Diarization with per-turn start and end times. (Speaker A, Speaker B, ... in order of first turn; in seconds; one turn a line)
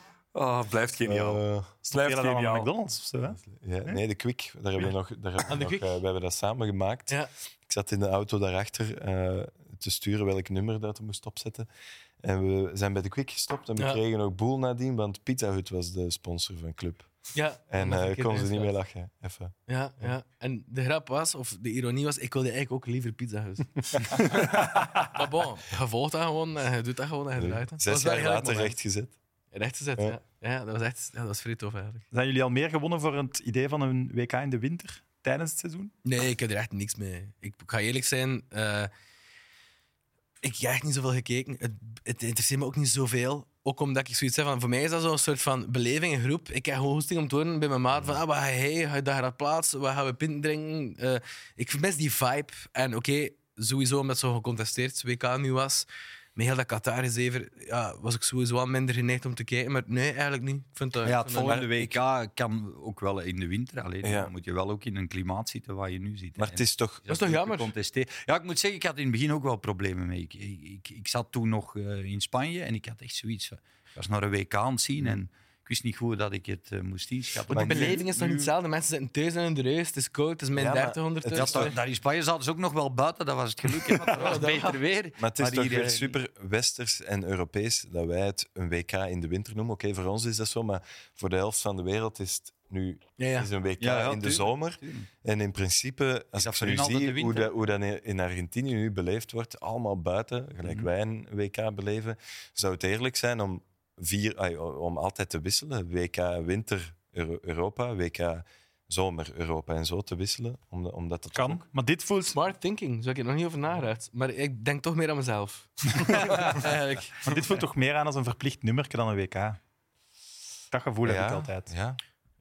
Speaker A: 0.3-2.7
Speaker B: 1.0-1.7
Speaker C: 1.9-4.0
Speaker B: 3.4-11.7
Speaker D: 5.5-6.0
Speaker B: 12.2-20.1
Speaker D: 17.3-18.7
Speaker D: 19.7-28.8
Speaker B: 27.4-29.1
Speaker D: 29.5-32.0
Speaker C: 32.1-35.9
Speaker D: 36.0-38.9
Speaker D: 40.4-61.8
Speaker E: 61.0-78.5
Speaker B: 61.4-61.9
Speaker B: 64.0-64.3
Speaker B: 66.4-67.0
Speaker D: 67.1-67.7
Speaker B: 77.5-78.1
Speaker D: 77.5-81.8
Speaker B: 80.5-81.7
Speaker E: 81.3-86.2
Speaker D: 84.1-84.8
Speaker B: 85.2-111.7
Speaker D: 93.2-93.5
Speaker E: 93.8-95.1
Speaker E: 96.4-97.5
Speaker C: 111.3-112.4
Speaker D: 112.3-117.3
Speaker C: 117.2-119.6
Speaker C: 120.7-121.7
Speaker B: 121.0-122.0